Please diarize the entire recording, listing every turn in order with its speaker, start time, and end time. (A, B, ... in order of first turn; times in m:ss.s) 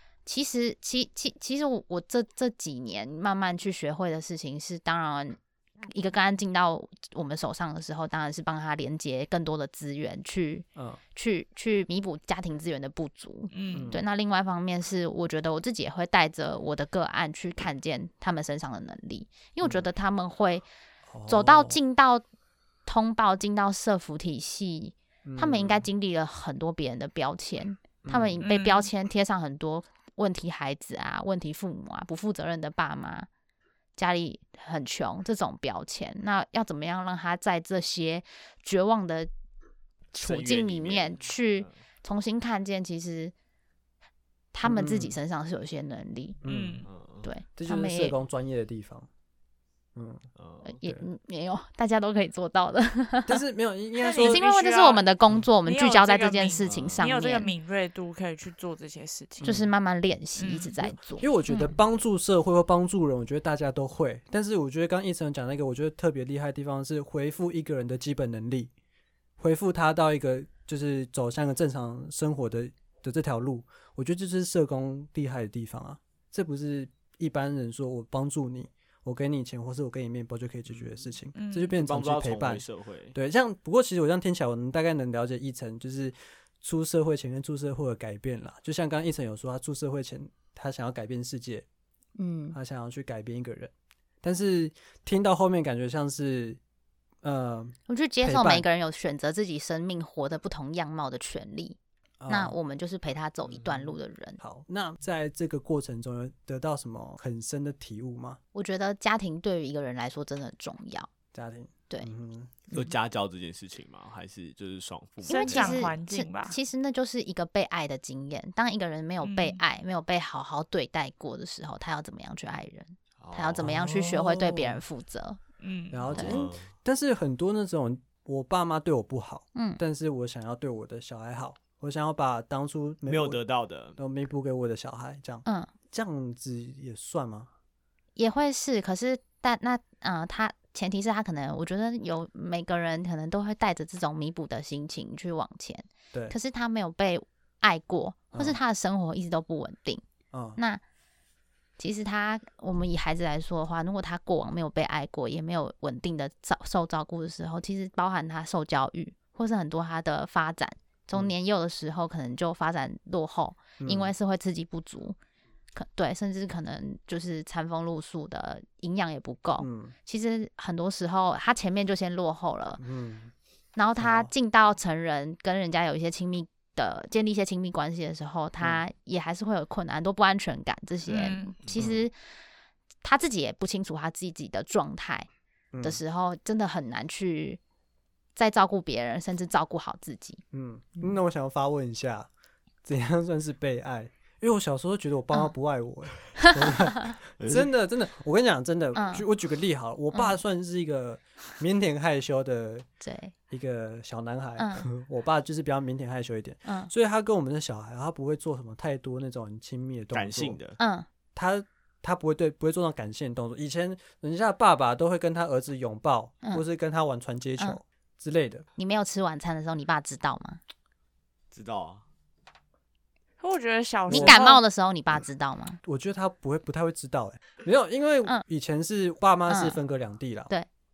0:00.2-0:05.4 A
0:05.9-0:20.6 A
0:13.5-0:13.9 B
0:13.7-0:14.0 C
0:21.1-0:21.8 C
0:21.3-0:22.2 A
0:22.8-0:33.3 A
0:25.2-0:25.9 C
0:28.0-0:28.4 C
0:28.4-0:28.9 B
0:34.0-0:39.3 A
0:40.1-0:43.3 A
0:40.2-0:41.7 D
0:44.5-0:46.4 A
0:44.6-0:45.2 C
0:46.4-0:46.9 C
0:46.5-0:46.9 B
0:46.8-0:47.3 D
0:47.2-0:48.1 A
0:47.6-0:49.1 C
0:49.9-0:50.2 C
0:50.4-0:50.8 D
0:50.6-0:53.4 A
0:53.3-0:54.4 C
0:54.0-0:55.0 B
0:54.2-0:57.5 A
0:55.6-0:59.5 B
0:56.6-0:57.1 D
0:59.4-0:59.7 C
0:59.4-1:01.7 A
1:00.4-1:00.8 B
1:00.9-1:08.7 C
1:09.4-1:31.6 C
1:20.7-1:21.0 D
1:21.3-1:21.8 B
1:21.8-1:23.1 D
1:32.2-1:32.6 A
1:32.5-1:33.7 C
1:34.2-1:36.6 C
1:37.2-1:38.6 C
1:37.9-1:41.8 A
1:42.2-1:42.6 C
1:42.3-1:44.4 A
1:44.4-1:48.4 C
1:48.5-1:51.1 A
1:51.3-1:52.7 C
1:52.7-1:55.9 D
1:55.2-2:05.4 A
1:55.2-1:56.6 B
1:59.2-1:59.6 B
2:03.2-2:03.7 D
2:03.6-2:04.8 C
2:05.6-2:06.1 B
2:05.9-2:13.4 C
2:06.1-2:06.7 D
2:09.5-2:09.8 A
2:13.0-2:14.0 D
2:14.0-2:17.5 C
2:15.4-2:15.7 A
2:18.2-2:30.0 A
2:28.3-2:28.6 C
2:30.3-2:30.6 C
2:30.6-2:30.8 A
2:31.8-2:45.2 A
2:43.8-2:44.1 C
2:45.7-2:52.8 A
2:49.6-2:49.9 C
2:52.8-2:53.3 C
2:53.8-3:02.1 A
2:54.0-2:54.3 C
3:01.1-3:01.5 B
3:01.8-3:02.0 C
3:03.0-3:05.3 A
3:05.7-3:06.0 C
3:05.8-3:07.6 A
3:08.4-3:10.4 A
3:10.5-3:12.3 C
3:12.8-3:22.8 C
3:17.4-3:17.7 D
3:18.9-3:19.2 A
3:23.0-3:23.3 A
3:23.5-3:30.6 C
3:24.6-3:24.8 A
3:26.6-3:26.9 A
3:30.1-3:30.8 D
3:30.8-3:31.1 A
3:31.3-3:38.6 C
3:38.8-3:40.6 A
3:41.5-3:42.0 D
3:43.4-3:44.6 B
3:44.1-3:45.8 A
3:44.1-3:44.4 C
3:45.8-3:50.5 C
3:49.5-3:49.8 A